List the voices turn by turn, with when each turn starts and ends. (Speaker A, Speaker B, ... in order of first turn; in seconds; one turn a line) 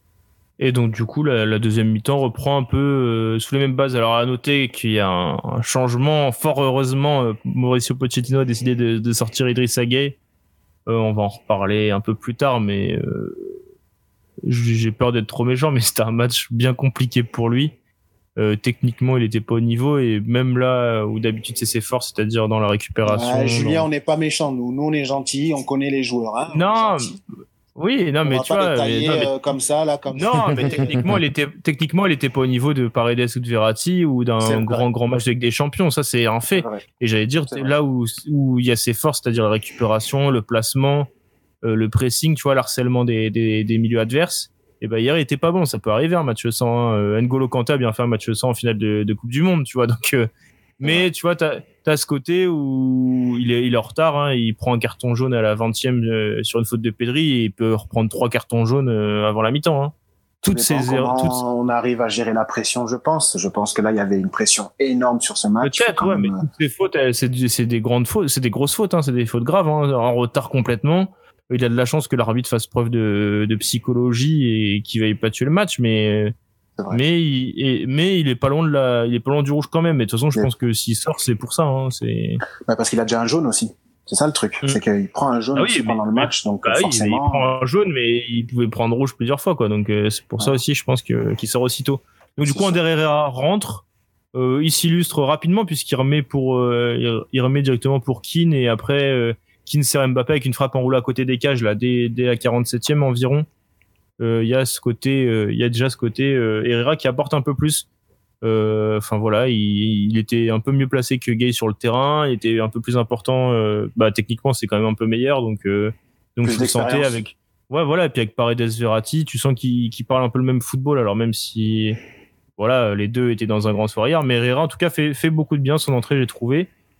Speaker A: 0.6-10.2
Speaker A: 10.9-13.5
Speaker A: 14.4-17.7
Speaker A: 18.4-23.9
Speaker B: 23.1-27.2
Speaker A: 26.5-27.1
Speaker A: 27.8-29.3
Speaker B: 28.2-30.9
Speaker A: 30.1-41.1
Speaker B: 34.4-34.9
Speaker B: 36.5-36.8
Speaker B: 37.5-37.7
Speaker A: 41.6-61.4
Speaker B: 50.8-51.1
Speaker B: 60.5-66.5
Speaker A: 65.6-76.3
Speaker B: 76.8-77.0
Speaker A: 76.9-82.4
Speaker B: 82.6-87.5
Speaker A: 85.5-103.5
Speaker B: 92.5-92.8
Speaker A: 104.2-107.8
Speaker A: 108.4-122.0
Speaker B: 116.4-117.2
Speaker A: 122.6-126.7